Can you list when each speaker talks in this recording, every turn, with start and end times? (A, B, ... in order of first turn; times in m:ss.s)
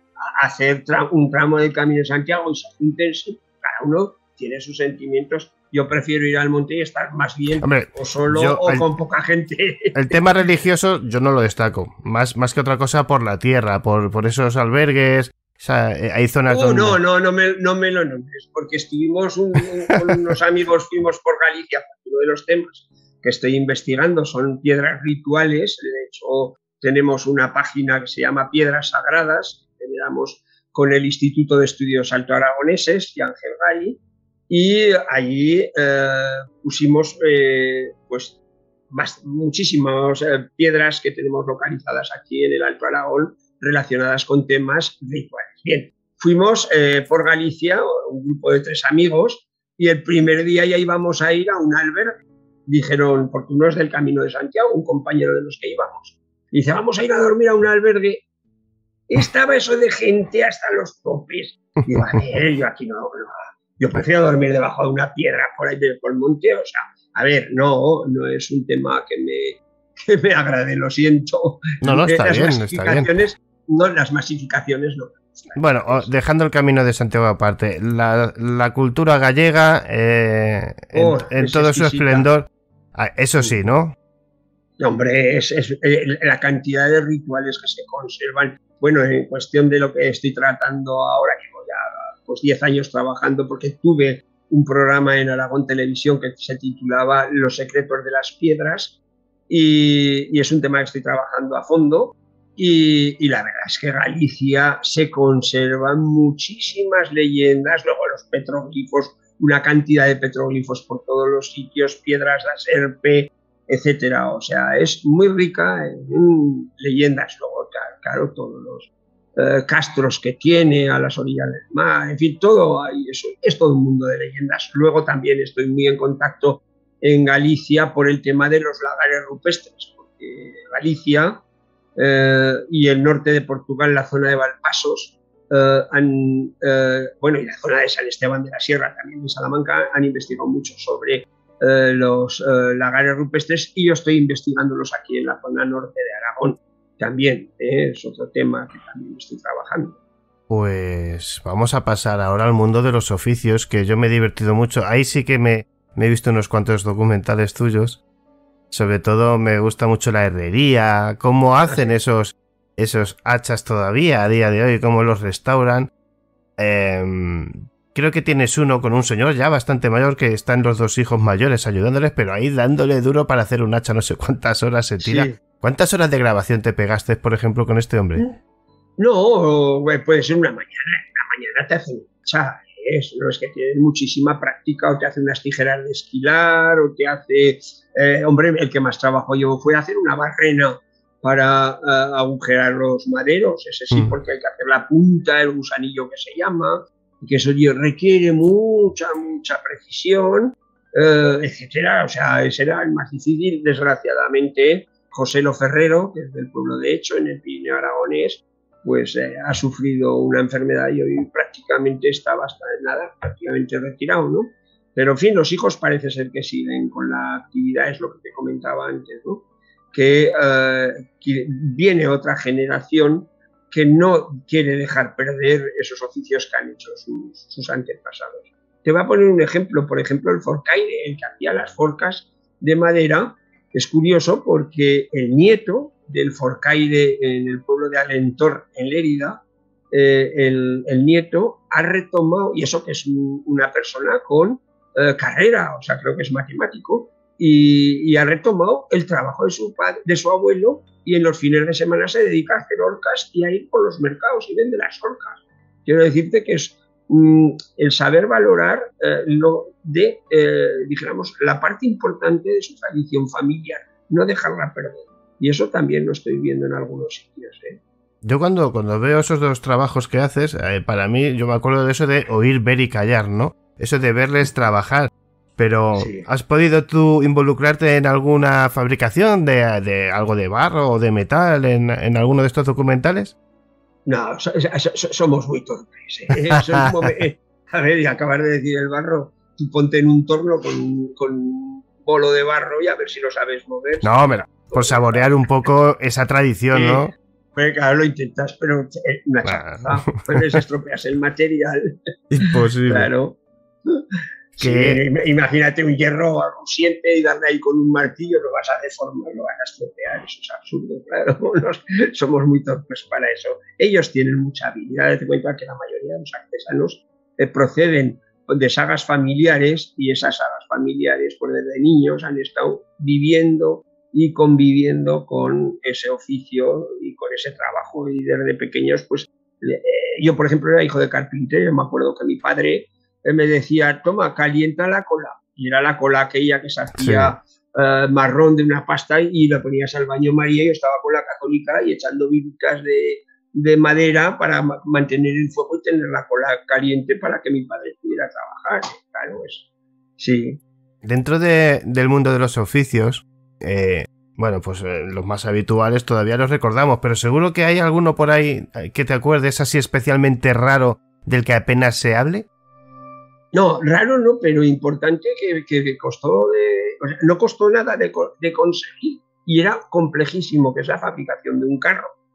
0:00.3-0:10.2 A
0:07.6-0:08.8 B
0:09.9-0:17.0 B
0:16.5-0:38.4 A
0:38.9-0:58.2 A
0:59.1-1:16.1 A
1:11.8-1:13.1 B
1:15.6-1:24.0 B
1:20.9-1:22.3 A
1:24.8-2:11.4 A
2:12.0-2:30.0 A
2:30.5-2:38.0 B
2:38.7-2:45.9 B
2:41.6-2:41.9 A
2:46.6-2:58.2 B
2:55.0-2:55.4 A
2:59.0-4:27.8 A
4:28.2-4:43.3 B
4:36.0-4:36.3 A
4:44.0-4:55.4 A
4:54.0-4:57.1 B
4:56.7-5:04.0 A
4:59.4-5:00.6 B
5:02.3-5:03.1 B
5:04.6-5:49.6 A
5:04.6-5:05.0 B
5:37.0-5:37.4 B
5:50.2-5:50.6 A
5:51.0-6:02.4 B
6:03.5-6:12.1 A